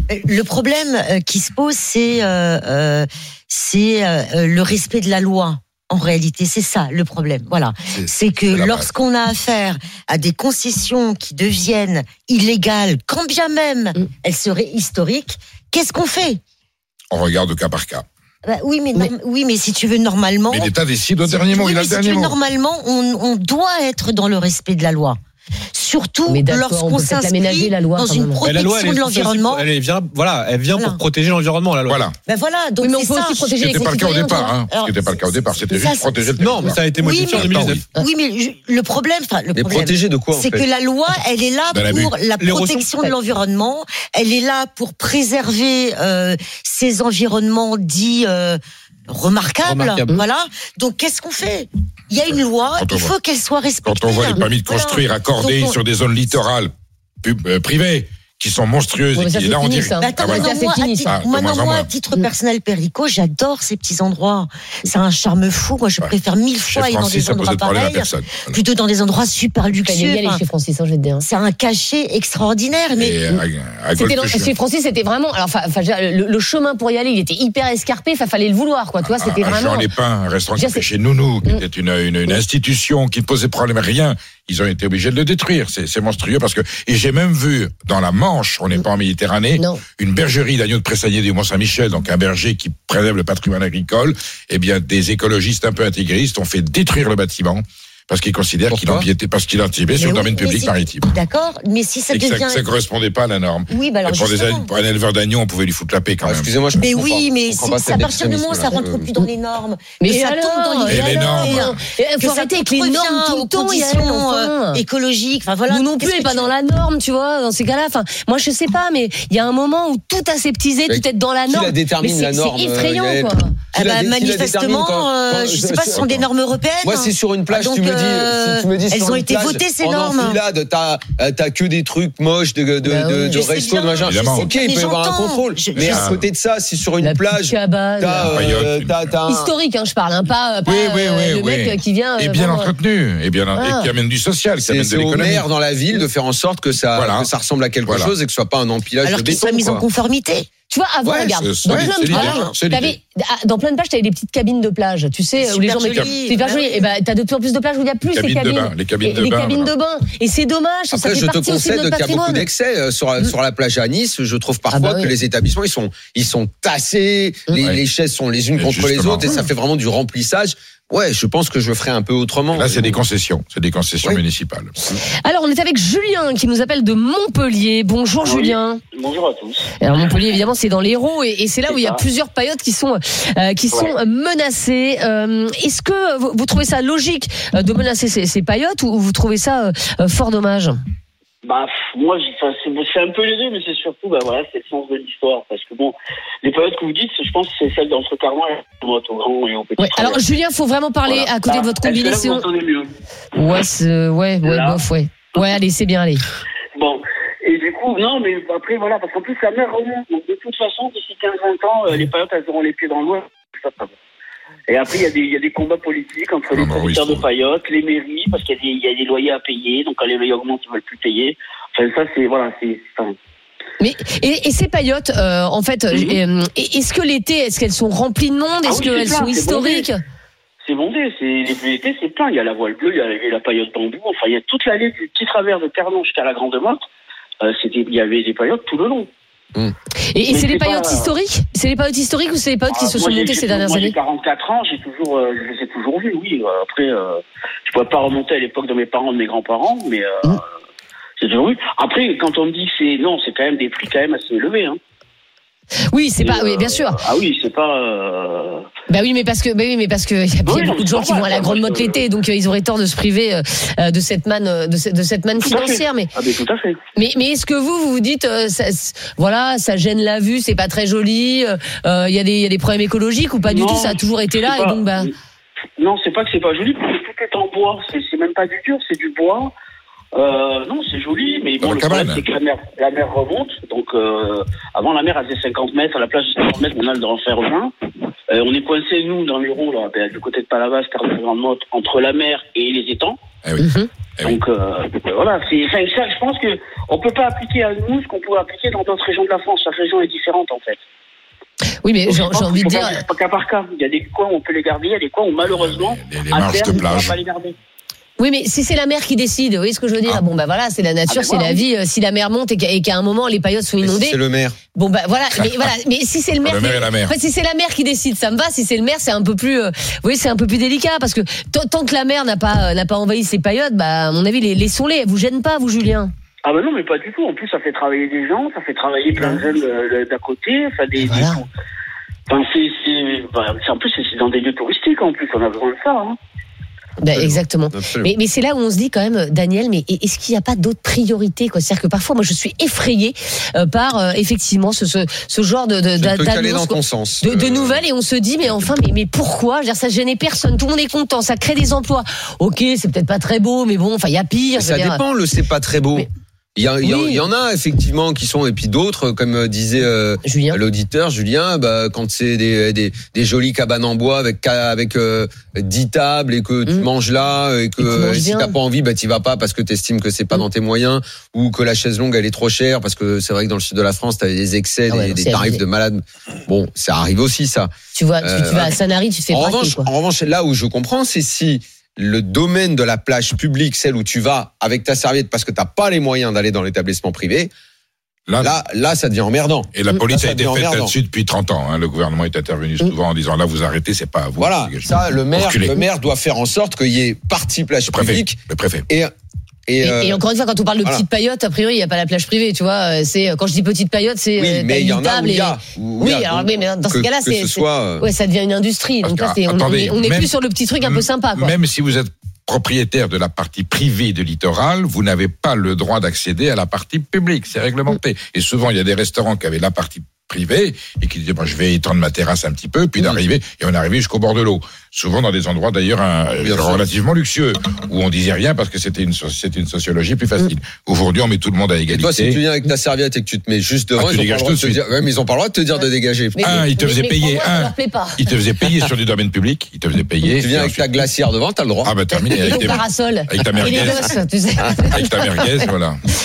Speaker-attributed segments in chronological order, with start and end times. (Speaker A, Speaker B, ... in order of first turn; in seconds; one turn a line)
Speaker A: 0.1-16.4
Speaker B: 8.0-8.9
Speaker B: 17.1-18.1
Speaker A: 18.4-20.7
Speaker B: 20.5-22.4
Speaker A: 21.2-25.2
Speaker A: 25.7-29.7
Speaker C: 26.3-28.4
Speaker D: 28.4-32.0
Speaker A: 30.8-31.0
Speaker B: 31.9-32.2
Speaker A: 32.3-36.3
Speaker C: 32.8-34.5
Speaker B: 33.6-37.9
Speaker D: 36.4-37.9
Speaker A: 36.9-55.8
Speaker E: 39.5-40.6
Speaker B: 41.7-42.2
Speaker D: 42.4-43.1
Speaker D: 49.6-50.2
Speaker B: 52.8-53.1
Speaker B: 53.8-60.5
Speaker C: 59.2-61.1
Speaker A: 60.0-70.4
Speaker B: 61.1-61.9
Speaker B: 66.7-68.6
Speaker C: 69.8-71.3
Speaker A: 71.2-73.3
Speaker B: 73.0-74.5
Speaker C: 74.0-79.9
Speaker B: 79.0-101.1
Speaker C: 80.6-80.9
Speaker E: 98.7-99.1
Speaker A: 100.0-102.6
Speaker B: 102.1-106.5
Speaker A: 103.7-104.7
Speaker E: 106.2-109.1
Speaker A: 106.8-116.5
Speaker C: 110.0-114.8
Speaker B: 110.9-111.8
Speaker C: 115.7-123.6
Speaker E: 120.9-126.2
Speaker A: 123.7-130.4
Speaker B: 125.9-126.2
Speaker E: 126.8-139.5
Speaker C: 132.8-133.5
Speaker A: 133.3-136.2
Speaker B: 134.0-134.5
Speaker B: 135.8-136.2
Speaker C: 137.0-138.4
Speaker B: 138.3-138.9
Speaker C: 139.3-142.7
Speaker B: 140.7-145.4
Speaker C: 143.6-143.9
Speaker E: 144.6-149.8
Speaker B: 146.9-147.3
Speaker B: 147.9-148.1
Speaker A: 149.0-150.5
Speaker C: 150.7-162.5
Speaker E: 151.1-152.3
Speaker B: 151.2-153.0
Speaker A: 152.1-152.5
Speaker A: 155.4-156.9
Speaker B: 158.1-159.7
Speaker E: 160.9-173.0
Speaker C: 164.7-165.1
Speaker B: 168.6-169.4
Speaker B: 172.5-174.7
Speaker C: 175.2-178.8
Speaker F: 178.2-180.3
Speaker C: 179.8-190.8
Speaker F: 181.7-182.0
Speaker F: 191.4-200.2
Speaker C: 199.8-202.5
Speaker F: 201.1-202.9
Speaker C: 203.3-206.2
Speaker F: 204.4-204.8
Speaker F: 206.8-213.9
Speaker F: 214.7-223.2
Speaker B: 216.5-217.2
Speaker C: 223.8-230.0
Speaker F: 225.9-226.2
Speaker F: 228.6-229.9
Speaker F: 230.6-236.8
Speaker F: 237.4-239.1
Speaker C: 240.1-243.9
Speaker F: 240.3-241.1
Speaker F: 242.7-250.4
Speaker F: 251.2-254.8
Speaker C: 255.9-257.0
Speaker F: 256.2-258.7
Speaker C: 258.9-266.1
Speaker F: 260.5-262.0
Speaker F: 265.4-266.8
Speaker C: 266.9-275.1
Speaker F: 273.4-275.1
Speaker F: 275.8-279.5
Speaker F: 280.1-287.7
Speaker B: 281.6-282.2
Speaker F: 288.3-293.2
Speaker B: 293.4-294.4
Speaker C: 293.6-293.9
Speaker F: 294.2-300.8
Speaker C: 301.8-303.0
Speaker F: 302.1-307.6
Speaker B: 305.4-307.2
Speaker C: 308.2-314.2
Speaker F: 311.1-311.6
Speaker E: 313.8-314.6
Speaker C: 314.7-326.1
Speaker B: 315.4-315.7
Speaker B: 316.4-317.1
Speaker F: 326.4-331.5
Speaker C: 331.0-331.4
Speaker F: 332.3-336.2
Speaker C: 337.0-355.0
Speaker E: 337.1-338.1
Speaker E: 346.0-347.8
Speaker E: 354.6-378.8
Speaker C: 356.8-357.2
Speaker C: 360.2-360.6
Speaker C: 367.8-368.6
Speaker C: 374.9-375.6
Speaker C: 377.9-379.9
Speaker E: 379.3-387.5
Speaker B: 388.3-388.6
Speaker E: 388.4-390.9
Speaker B: 389.7-395.8
Speaker E: 394.4-399.1
Speaker B: 397.9-398.9
Speaker E: 399.7-400.2
Speaker C: 399.8-411.5
Speaker E: 404.4-408.1
Speaker B: 409.0-432.4
Speaker E: 426.4-426.9
Speaker E: 431.9-436.7
Speaker B: 434.0-434.8
Speaker C: 436.4-438.2
Speaker B: 436.4-440.9
Speaker E: 440.2-441.9
Speaker B: 441.8-444.2
Speaker C: 442.1-445.4
Speaker E: 442.5-442.7
Speaker B: 444.9-446.0